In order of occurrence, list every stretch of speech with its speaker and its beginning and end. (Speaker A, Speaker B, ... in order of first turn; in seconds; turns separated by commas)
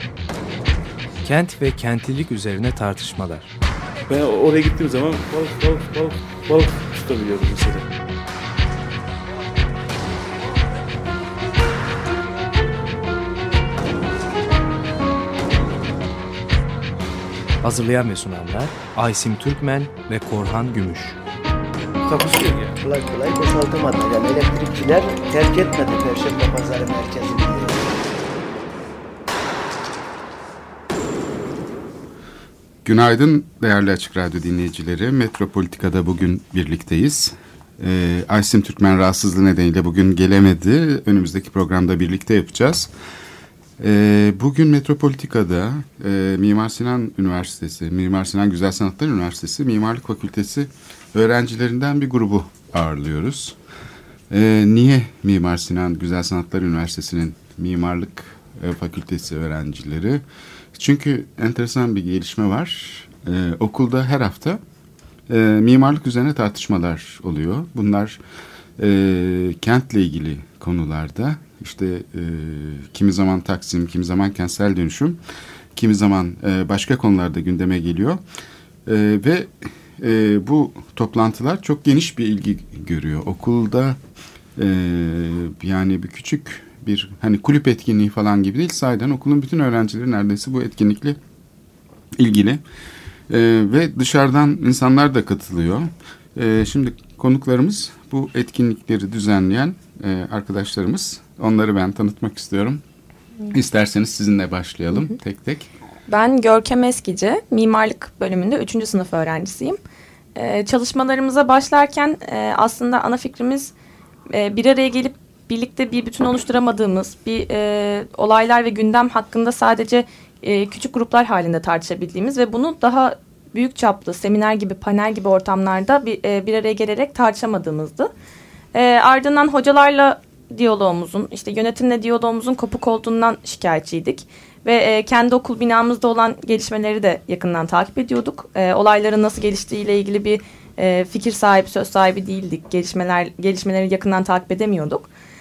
Speaker A: 1.2-3.5, Speaker B: 4.1-7.9, Speaker A: 17.6-21.2, Speaker B: 22.1-22.8, Speaker C: 22.8-28.0, Speaker D: 32.9-42.9, Speaker D: 43.8-53.6, Speaker D: 54.3-60.2, Speaker D: 60.7-64.6, Speaker D: 65.3-68.2, Speaker D: 68.8-75.2, Speaker D: 75.8-78.2, Speaker D: 78.9-84.0, Speaker D: 84.6-91.2, Speaker D: 92.1-92.6, Speaker D: 93.3-102.8, Speaker D: 103.5-105.7, Speaker E: 106.1-109.8, Speaker E: 110.3-113.7, Speaker E: 114.3-128.1, Speaker E: 128.7-145.1